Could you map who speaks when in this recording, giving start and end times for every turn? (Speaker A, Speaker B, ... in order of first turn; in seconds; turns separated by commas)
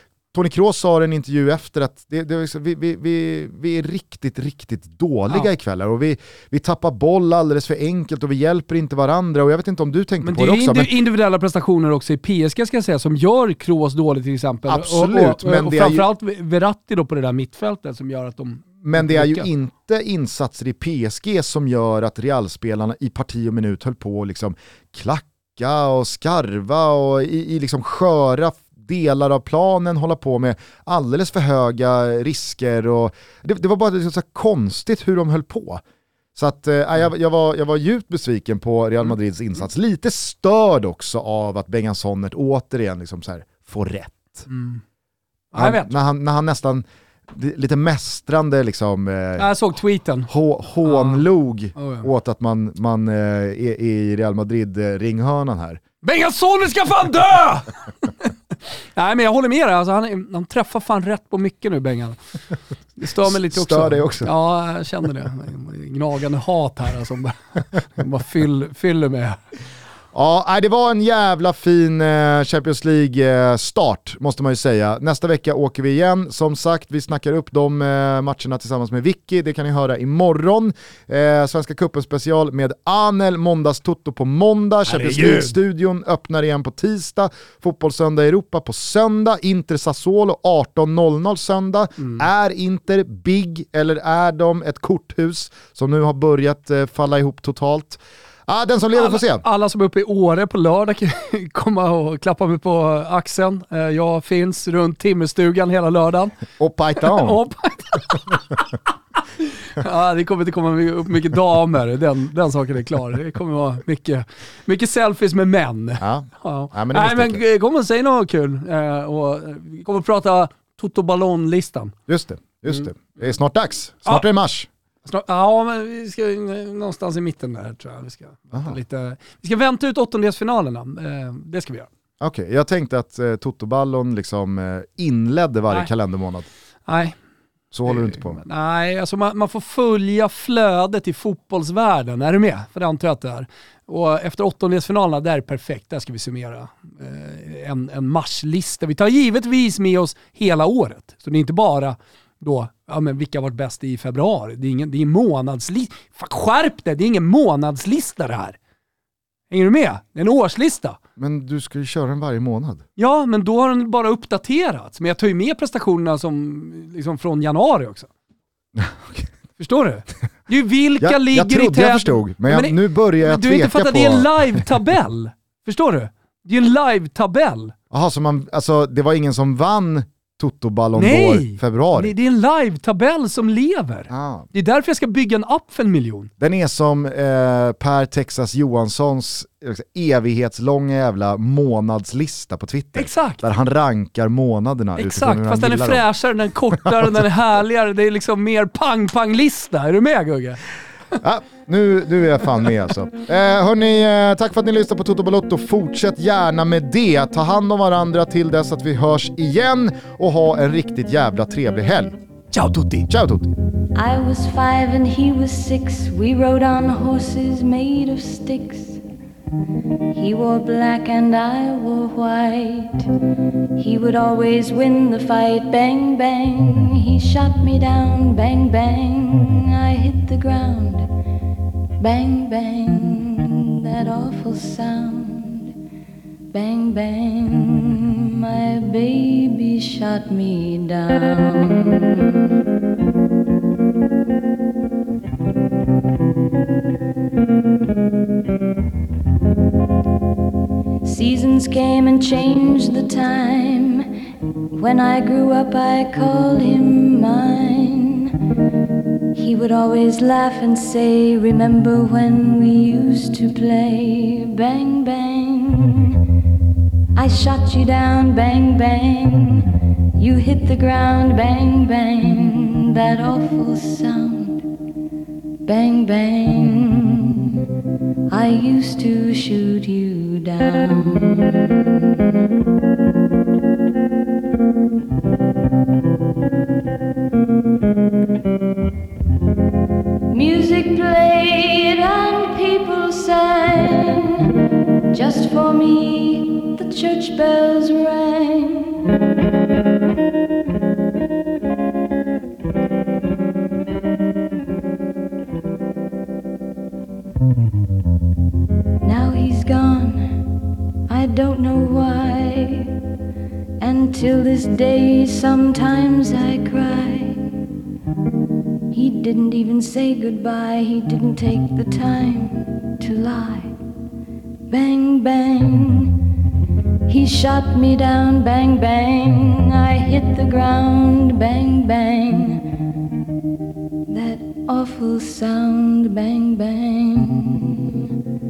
Speaker A: 0.3-10.9, Speaker B: 10.2-19.5, Speaker A: 14.7-16.1, Speaker A: 18.8-35.8, Speaker A: 36.3-44.4, Speaker B: 44.5-44.8, Speaker B: 45.5-45.9, Speaker A: 45.6-49.5, Speaker B: 49.4-50.3, Speaker A: 50.3-55.8, Speaker B: 50.8-51.2, Speaker B: 51.7-52.1, Speaker B: 56.0-58.3, Speaker B: 58.9-62.2, Speaker B: 63.0-69.4, Speaker A: 63.2-64.3, Speaker A: 70.1-99.4, Speaker B: 84.9-85.5, Speaker B: 98.9-106.4, Speaker A: 106.6-107.4, Speaker B: 107.0-108.7, Speaker B: 109.4-122.0, Speaker A: 116.0-117.4, Speaker A: 122.1-124.7, Speaker B: 125.0-131.9, Speaker A: 132.2-136.5, Speaker B: 136.9-137.2, Speaker A: 137.7-138.4, Speaker B: 137.9-158.6, Speaker B: 159.5-161.0, Speaker A: 161.2-162.8, Speaker B: 163.0-168.1, Speaker A: 168.7-169.3, Speaker B: 169.6-177.7, Speaker A: 171.0-174.3, Speaker A: 177.9-182.1, Speaker B: 180.9-186.3, Speaker A: 184.1-184.5, Speaker A: 186.4-196.0, Speaker B: 192.9-193.4, Speaker B: 195.0-200.6, Speaker A: 196.7-197.1, Speaker A: 201.2-212.2, Speaker B: 212.5-213.1, Speaker A: 213.1-213.5, Speaker C: 213.9-219.0, Speaker C: 220.1-223.1, Speaker C: 223.8-231.1, Speaker C: 232.0-235.7, Speaker C: 236.5-242.4, Speaker C: 251.0-254.1, Speaker C: 254.7-258.3, Speaker C: 259.3-266.2, Speaker C: 267.1-274.6, Speaker C: 275.6-277.5, Speaker C: 278.3-281.9, Speaker C: 290.3-294.5, Speaker C: 295.1-299.1, Speaker C: 309.0-310.4, Speaker C: 311.1-312.9, Speaker C: 313.8-317.4, Speaker C: 318.9-323.7, Speaker C: 324.7-326.2, Speaker C: 327.1-332.6, Speaker C: 334.1-337.9